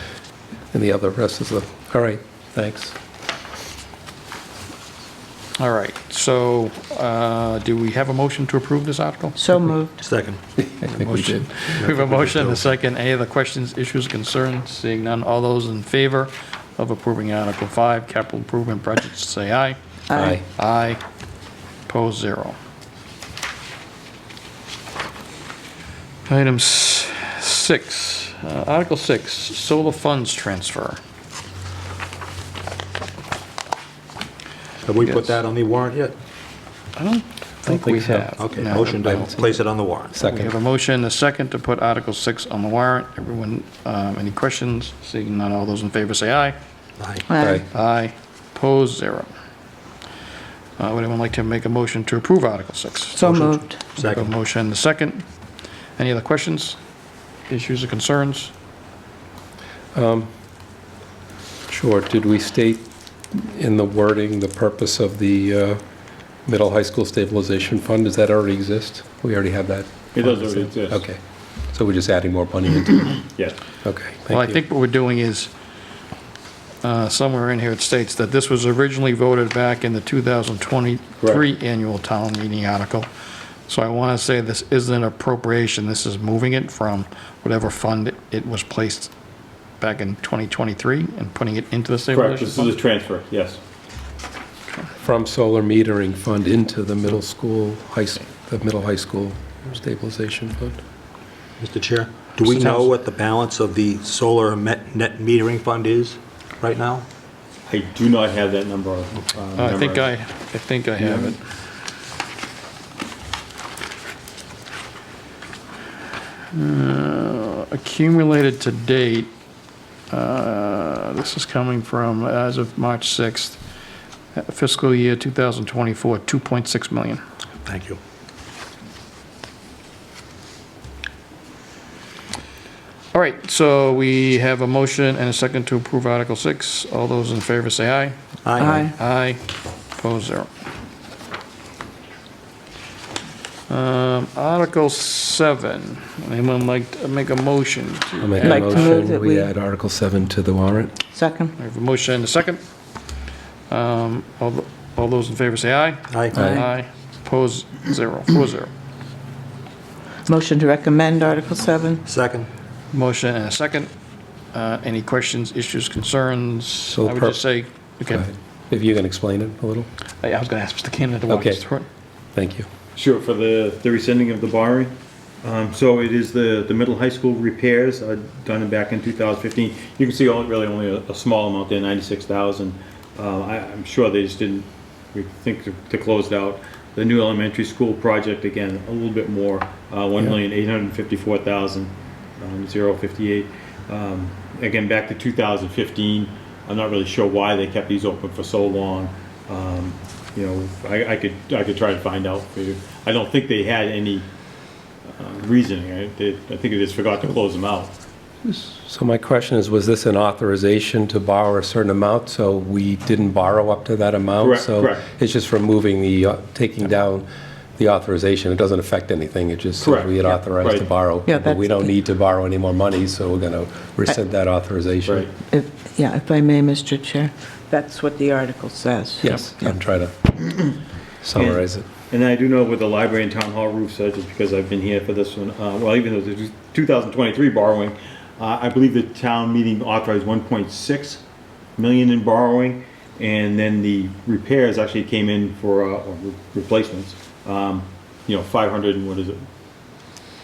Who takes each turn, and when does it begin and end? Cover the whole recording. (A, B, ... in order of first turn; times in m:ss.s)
0:00.7-0:03.0 A
0:05.6-0:09.4 B
0:09.4-0:10.0 C
0:10.0-0:10.4 D
0:10.6-0:11.5 A
0:10.8-0:19.8 B
0:11.8-0:12.6 D
0:20.1-0:20.4 C
0:20.2-0:20.4 A
0:20.5-0:21.0 B
0:21.9-0:22.6 B
0:26.3-0:31.0 B
0:34.8-0:36.1 D
0:35.1-0:35.3 B
0:37.0-0:39.5 B
0:37.6-0:38.3 A
0:38.4-0:40.2 D
0:39.0-0:39.4 A
0:40.1-0:40.5 A
0:40.2-0:46.6 B
0:47.0-0:47.3 D
0:47.3-0:47.7 C
0:47.4-0:47.7 A
0:47.7-0:49.3 B
0:50.8-0:53.4 B
0:53.1-0:53.8 C
0:53.2-0:54.3 D
0:54.0-0:55.2 B
0:56.0-0:56.8 B
0:57.5-0:58.5 B
0:59.9-1:00.3 A
1:01.7-1:05.8 A
1:06.5-1:13.2 A
1:10.1-1:11.0 E
1:13.3-1:13.6 E
1:13.8-1:14.6 A
1:14.3-1:15.5 B
1:16.8-1:23.1 B
1:23.7-1:29.1 B
1:29.8-1:32.8 B
1:32.1-1:33.6 E
1:35.0-1:40.8 A
1:41.6-1:47.1 D
1:42.4-1:42.9 B
1:47.7-1:50.1 E
1:49.6-1:51.4 B
1:51.0-1:51.3 E
1:56.5-1:59.3 B
2:00.1-2:03.6 B
2:04.4-2:07.2 B
2:07.6-2:08.0 D
2:13.1-2:19.4 B
2:18.4-2:18.8 D
2:18.6-2:18.9 C
2:19.9-2:20.5 B
2:23.7-2:29.0 B
2:28.2-2:31.0 A
2:28.4-2:29.5 C
2:31.1-2:31.6 C
2:31.6-2:32.6 B
2:33.7-2:38.7 B
2:36.1-2:36.4 D
2:36.3-2:36.7 C
2:36.3-2:36.6 A
2:40.3-2:42.0 C
2:42.1-2:42.5 D
2:42.9-2:43.9 B
2:44.5-2:48.3 B
2:46.9-2:47.4 A
2:48.1-2:49.9 A
2:50.2-2:51.9 B
2:51.3-2:51.7 A
2:52.4-2:52.7 A
2:53.0-3:24.3 E
3:25.1-3:27.9 E
3:28.4-3:45.3 A
3:34.4-3:35.0 E
3:39.8-3:40.9 E
3:41.3-3:41.8 C
3:45.0-3:45.3 E
3:45.5-3:49.7 C
3:49.2-3:50.3 A
3:51.2-3:51.9 A
3:51.4-4:01.2 E
4:01.8-4:09.4 E